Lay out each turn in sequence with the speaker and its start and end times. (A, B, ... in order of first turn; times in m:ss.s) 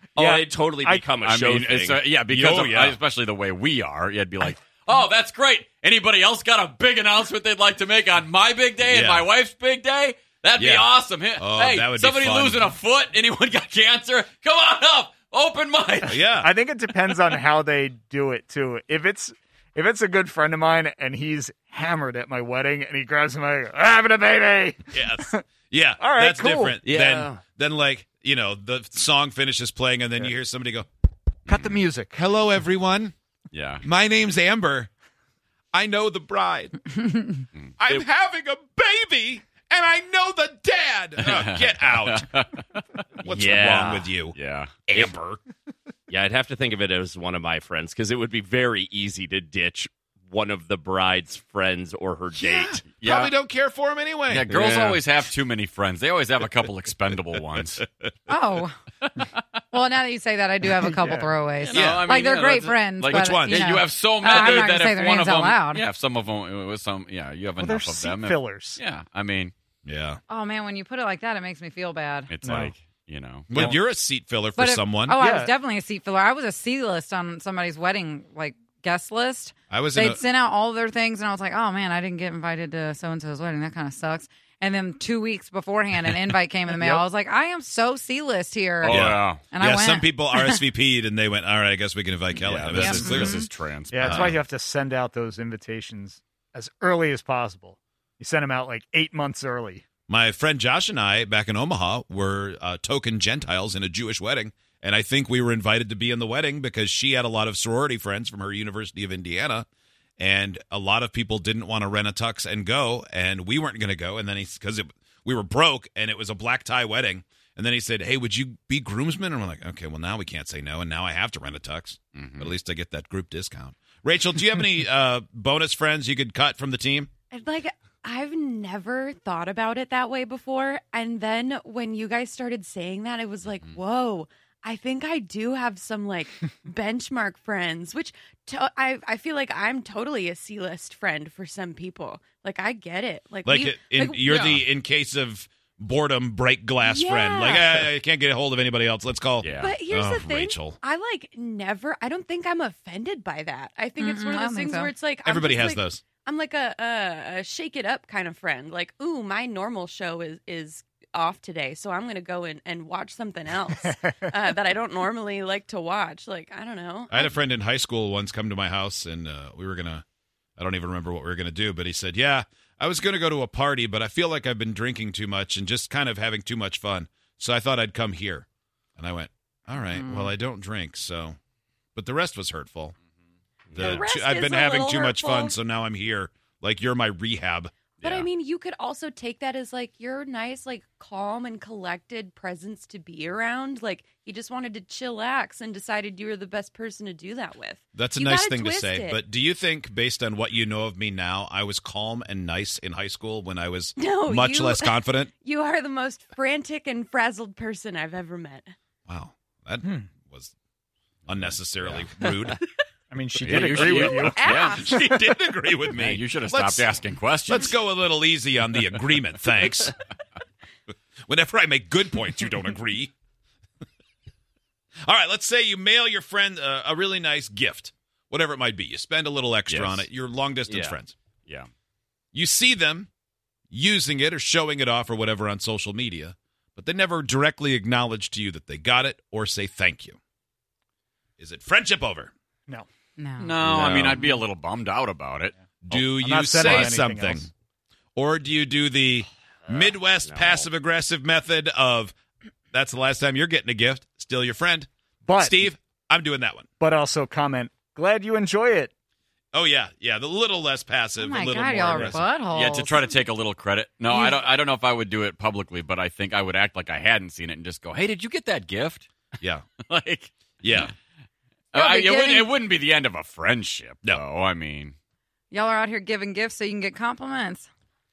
0:00.2-0:02.1 A
0:00.2-0:01.1 B
0:01.2-0:16.2 C
0:02.3-0:03.0 D
0:08.8-0:09.3 D
0:10.5-0:12.7 D
0:16.1-0:16.5 D
0:16.4-0:25.4 B
0:24.9-0:30.9 D
0:26.0-0:26.8 B
0:26.8-0:27.4 A
0:31.5-0:31.8 C
0:31.5-0:32.2 B
0:32.1-0:33.1 D
0:33.5-0:33.8 C
0:33.8-0:34.9 D
0:35.7-0:36.9 D
0:37.8-0:42.3 D
0:41.2-0:43.0 C
0:43.2-0:44.4 D
0:43.3-0:44.1 A
0:44.3-0:44.8 C
0:44.9-0:45.4 D
0:44.9-0:45.2 A
0:46.1-0:52.8 A
0:52.3-0:54.5 D
0:52.9-0:53.3 C
0:54.3-0:57.8 C
0:54.5-0:55.0 A
0:58.3-0:58.8 E
0:59.7-1:05.8 E
1:01.0-1:01.3 B
1:01.6-1:01.9 A
1:01.7-1:09.5 C
1:01.7-1:02.1 D
1:03.0-1:03.8 D
1:07.6-1:08.8 B
1:09.8-1:10.2 D
1:10.3-1:12.3 E
1:12.3-1:13.7 C
1:12.4-1:12.7 B
1:13.5-1:15.2 D
1:14.6-1:30.6 E
1:15.2-1:15.5 B
1:19.7-1:20.2 D
1:26.8-1:27.0 B
1:28.8-1:29.4 C
1:28.9-1:33.4 D
1:32.4-1:34.4 C
1:32.8-1:33.5 E
1:33.9-1:39.8 B
1:34.0-1:34.3 D
1:40.1-1:49.6 D
1:50.2-2:07.1 D
2:02.1-2:02.5 C
2:07.3-2:24.3 F
2:23.4-2:30.8 D
2:24.3-2:24.6 C
2:26.8-2:27.9 F
2:29.4-2:29.7 C
2:29.6-2:47.3 F
2:34.0-2:34.9 E
2:35.2-2:36.0 D
2:47.1-2:50.0 D
2:50.6-2:58.4 D
2:59.0-3:01.4 D
2:59.9-3:00.3 E
3:02.0-3:02.9 D
3:03.7-3:07.7 D
3:03.8-3:05.6 F
3:08.0-3:08.3 C
3:08.0-3:19.2 F
3:17.9-3:25.3 D
3:24.0-3:28.7 F
3:29.1-3:30.5 D
3:31.3-3:32.6 D
3:31.3-3:32.1 C
3:33.1-3:34.4 B
3:33.4-3:34.9 C
3:33.7-3:36.9 D
3:34.4-3:35.3 F
3:35.9-3:37.7 C
3:37.5-3:39.9 D
3:41.3-3:43.1 D
3:45.0-3:51.1 D
3:49.7-3:50.1 C
3:50.7-3:51.0 A
3:52.3-3:53.1 D
3:53.7-4:00.2 D
4:01.4-4:02.3 D
4:03.2-4:04.3 E
4:03.4-4:06.1 C
4:03.7-4:04.1 D
4:05.8-4:07.5 D
4:06.2-4:07.5 B
4:08.2-4:12.1 D
4:09.7-4:10.7 A
4:12.7-4:16.7 D
4:15.2-4:15.7 B
4:16.8-4:18.9 B
4:19.5-4:22.2 D
4:21.2-4:23.2 E
4:21.9-4:22.2 B
4:22.5-4:29.1 C
4:24.1-4:24.4 E
4:29.4-4:29.6 D
4:29.8-4:30.9 C
4:30.6-4:30.9 D
4:31.7-4:34.9 C
4:31.7-4:32.5 E
4:35.5-4:37.7 E